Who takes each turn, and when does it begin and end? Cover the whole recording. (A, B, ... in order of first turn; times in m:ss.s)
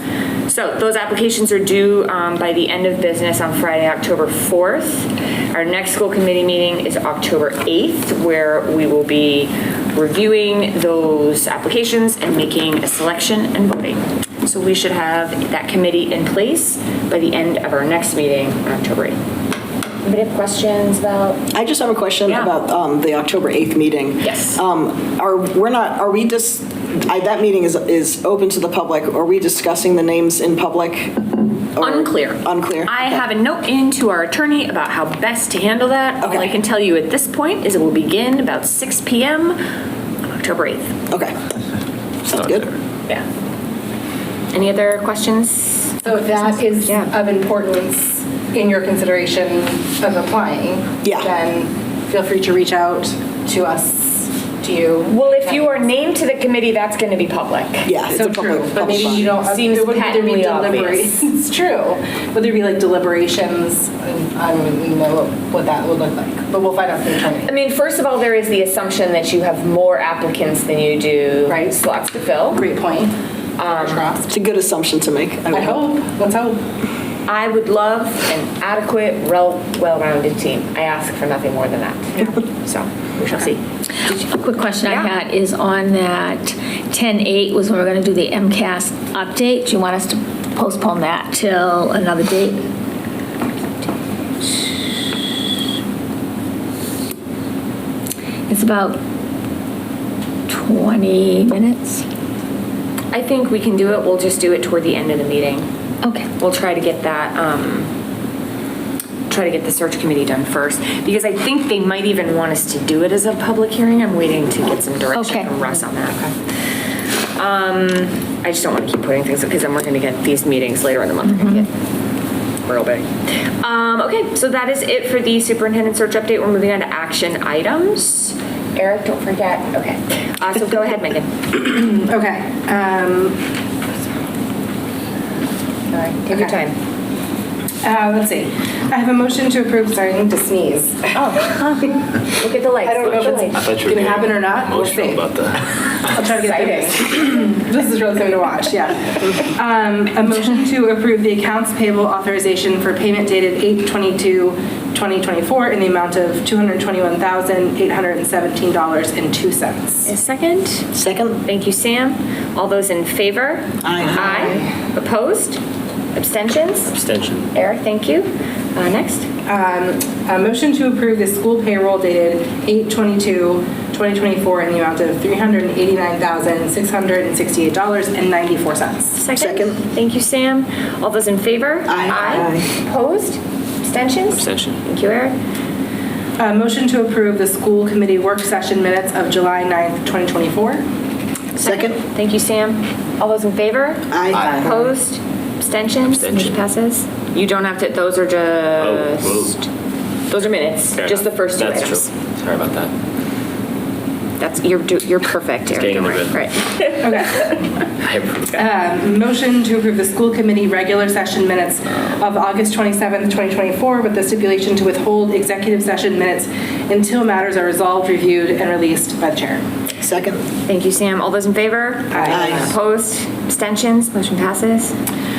0:00.5-0:19.2 A
0:20.0-0:21.4 A
0:21.5-0:33.0 B
0:22.3-0:22.5 A
0:24.2-0:24.6 A
0:31.8-0:39.6 A
0:36.2-0:36.5 B
0:40.2-0:41.0 A
0:41.1-0:41.4 B
0:42.3-0:42.7 B
0:42.3-0:42.6 C
0:44.5-0:47.1 A
0:46.0-0:55.7 D
0:51.0-0:51.3 B
0:55.1-0:57.9 A
0:57.8-0:59.3 B
0:58.1-1:07.5 D
0:58.7-1:01.2 A
1:07.4-1:12.6 A
1:11.5-1:11.8 D
1:12.5-1:14.3 D
1:13.6-1:14.1 A
1:14.3-1:15.9 B
1:15.5-1:16.6 D
1:17.3-1:24.2 A
1:24.1-1:32.7 E
1:24.8-1:25.1 A
1:38.5-1:39.0 E
1:40.5-1:42.0 E
1:43.1-1:45.7 A
1:46.4-1:47.9 A
1:49.3-1:56.3 A
1:55.2-1:55.5 E
1:57.3-2:01.7 A
2:01.2-2:01.6 E
2:02.6-2:03.1 A
2:03.6-2:11.3 A
2:11.5-2:13.4 D
2:15.9-2:16.8 A
2:16.3-2:16.6 D
2:17.8-2:21.9 D
2:21.1-2:23.6 A
2:22.8-2:25.3 D
2:23.0-2:26.2 C
2:26.1-2:40.1 D
2:26.2-2:27.1 A
2:40.1-2:40.9 A
2:40.9-2:41.4 B
2:41.4-2:45.6 A
2:43.8-2:44.6 B
2:46.2-2:46.9 A
2:46.9-2:47.5 C
2:47.5-2:49.3 A
2:49.5-2:59.2 D
2:59.1-3:05.3 A
2:59.4-2:59.8 B
3:01.9-3:02.7 B
3:04.3-3:04.8 C
3:06.4-3:10.8 D
3:11.6-3:19.7 A
3:11.6-3:12.0 B
3:14.1-3:14.8 B
3:14.3-3:14.8 C
3:16.1-3:16.6 C
3:18.8-3:19.5 C
3:20.3-3:22.1 A
3:20.9-3:22.9 C
3:24.4-3:27.6 A
3:25.7-3:26.4 C
3:27.0-3:27.6 D
3:28.0-3:28.6 C
3:28.5-3:39.6 D
3:40.0-3:40.4 B
3:40.7-3:44.9 A
3:42.1-3:42.7 D
3:42.3-3:42.8 B